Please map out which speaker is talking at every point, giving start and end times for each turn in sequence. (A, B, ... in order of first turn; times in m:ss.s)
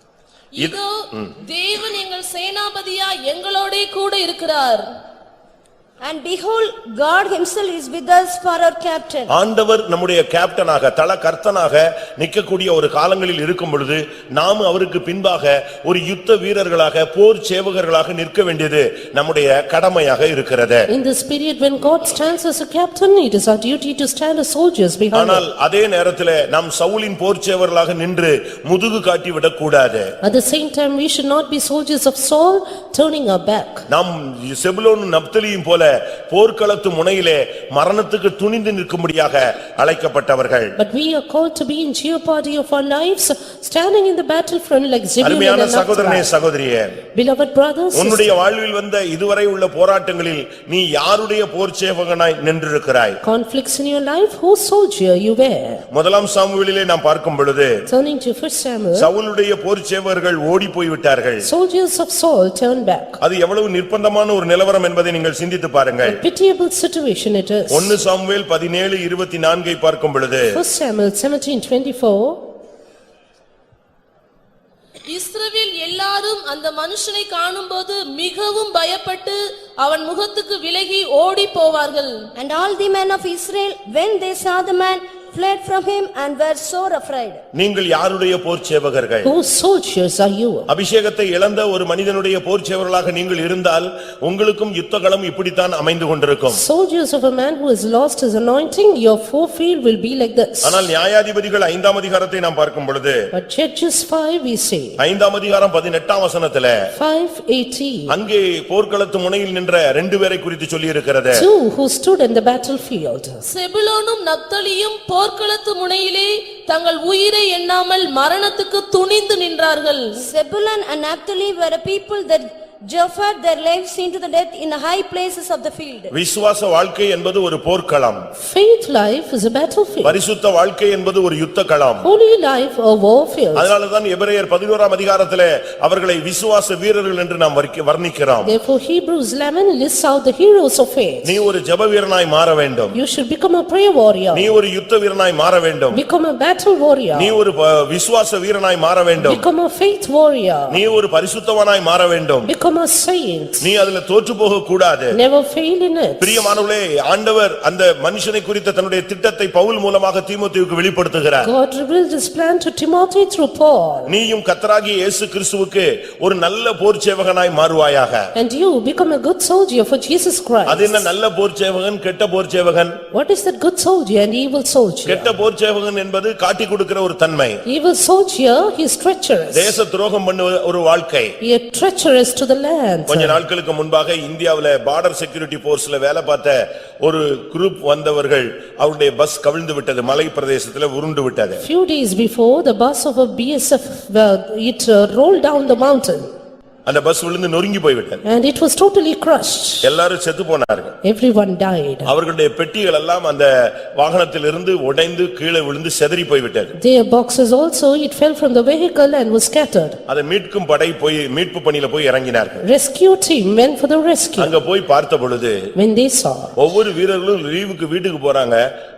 0:00.5-0:04.8 A
0:00.6-0:01.2 B
0:06.0-0:09.3 C
0:09.3-0:20.8 B
0:20.9-0:25.4 D
0:25.1-0:30.1 B
0:30.2-0:33.8 D
0:33.9-0:40.7 B
0:40.8-0:46.3 D
0:45.2-0:46.9 B
0:47.1-0:48.3 D
0:47.9-0:53.2 B
0:53.2-0:55.8 D
0:55.9-0:57.7 B
0:57.9-0:59.1 D
0:59.0-1:01.4 B
1:01.4-1:03.2 D
1:03.2-1:06.2 B
1:06.0-1:08.0 D
1:07.7-1:10.5 B
1:10.5-1:12.4 D
1:15.1-1:22.3 A
1:22.4-1:27.4 C
1:27.5-1:29.3 B
1:29.2-1:30.7 D
1:30.7-1:36.6 B
1:36.5-1:40.9 D
1:40.6-1:43.2 B
1:43.3-1:45.0 D
1:45.0-1:46.7 B
1:46.9-1:48.1 D
1:48.1-1:51.5 B
1:51.3-1:53.4 D
1:53.5-2:00.3 A
2:00.2-2:06.1 C
2:06.1-2:08.2 B
2:08.4-2:10.2 D
2:10.0-2:12.1 B
2:12.0-2:13.7 D
2:13.5-2:18.5 B
2:18.4-2:21.3 D
2:21.2-2:23.0 B
2:22.9-2:24.5 D
2:24.3-2:26.0 B
2:25.9-2:27.4 D
2:27.1-2:29.4 B
2:29.2-2:30.8 D
2:30.7-2:32.5 B
2:32.4-2:33.6 D
2:33.6-2:35.2 B
2:35.1-2:36.5 D
2:36.2-2:41.5 B
2:41.4-2:44.1 D
2:44.1-2:48.2 B
2:48.3-2:51.0 D
2:50.6-2:53.0 B
2:53.1-2:55.3 D
2:55.0-2:57.6 B
2:57.6-2:59.8 D
2:59.5-3:01.3 B
3:01.4-3:03.4 D
3:03.1-3:11.6 B
3:11.6-3:16.3 D
3:16.8-3:18.2 B
3:18.2-3:19.9 D
3:19.8-3:21.0 B
3:21.0-3:22.1 D
3:22.0-3:26.7 B
3:26.8-3:30.0 D
3:30.1-3:32.6 B
3:32.6-3:34.5 D
3:34.4-3:35.6 B
3:35.7-3:36.5 D
3:36.6-3:38.6 B